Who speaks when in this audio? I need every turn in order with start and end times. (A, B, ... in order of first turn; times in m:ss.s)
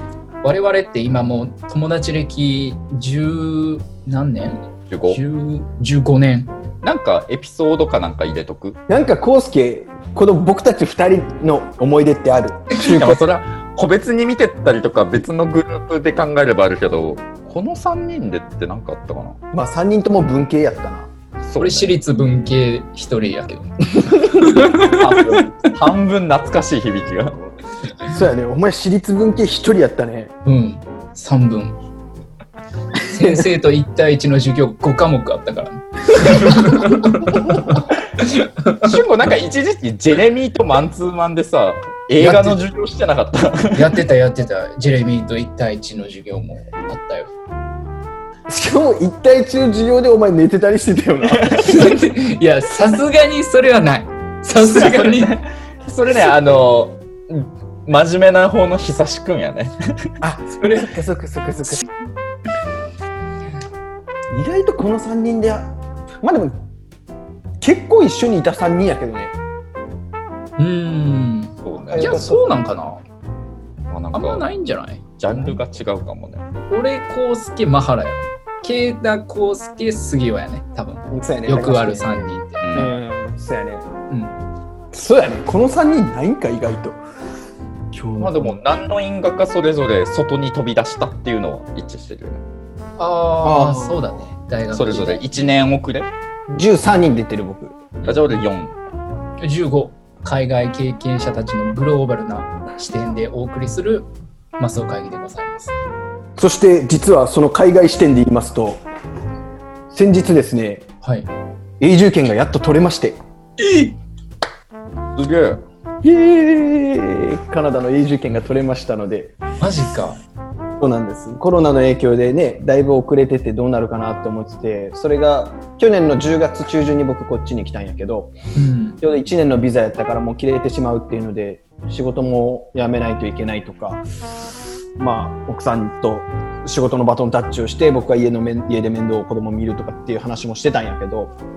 0:00.4-0:06.5 A
0:04.9-0:05.2 B
0:06.8-0:08.8 B
0:08.9-0:13.2 C
0:12.7-0:19.4 B
0:19.5-0:21.1 C
0:21.4-0:22.0 B
0:21.6-0:23.7 A
0:24.3-0:25.4 A
0:24.8-0:27.4 B
0:28.1-0:30.3 C
0:30.4-0:31.8 A
0:33.1-0:38.8 A
0:38.8-0:43.9 B
0:42.2-0:42.5 A
0:43.7-0:47.3 A
0:48.5-0:51.7 C
0:51.6-0:55.4 A
0:54.6-0:59.7 B
1:00.2-1:01.8 C
1:04.3-1:05.7 C
1:06.2-1:06.5 C
1:07.6-1:09.4 C
1:10.6-1:13.0 A
1:11.6-1:12.2 B
1:11.9-1:12.5 C
1:13.9-1:14.4 B
1:14.1-1:15.5 A
1:15.2-1:16.4 B
1:16.7-1:22.7 A
1:21.1-1:23.9 C
1:22.6-1:22.9 B
1:24.1-1:24.4 A
1:24.9-1:27.0 C
1:27.9-1:28.6 C
1:28.2-1:32.4 B
1:33.0-1:35.3 A
1:33.4-1:34.2 C
1:34.7-1:36.1 B
1:36.5-1:37.8 C
1:38.0-1:38.8 B
1:39.4-1:45.7 A
1:46.4-1:48.8 C
1:49.9-1:50.8 C
1:51.0-1:51.3 A
1:51.8-1:53.2 C
1:53.6-1:53.9 A
1:55.2-1:55.6 B
1:56.0-1:59.4 C
1:59.6-2:00.2 A
2:00.8-2:08.3 C
2:08.5-2:09.0 A
2:09.0-2:14.0 C
2:15.0-2:21.3 C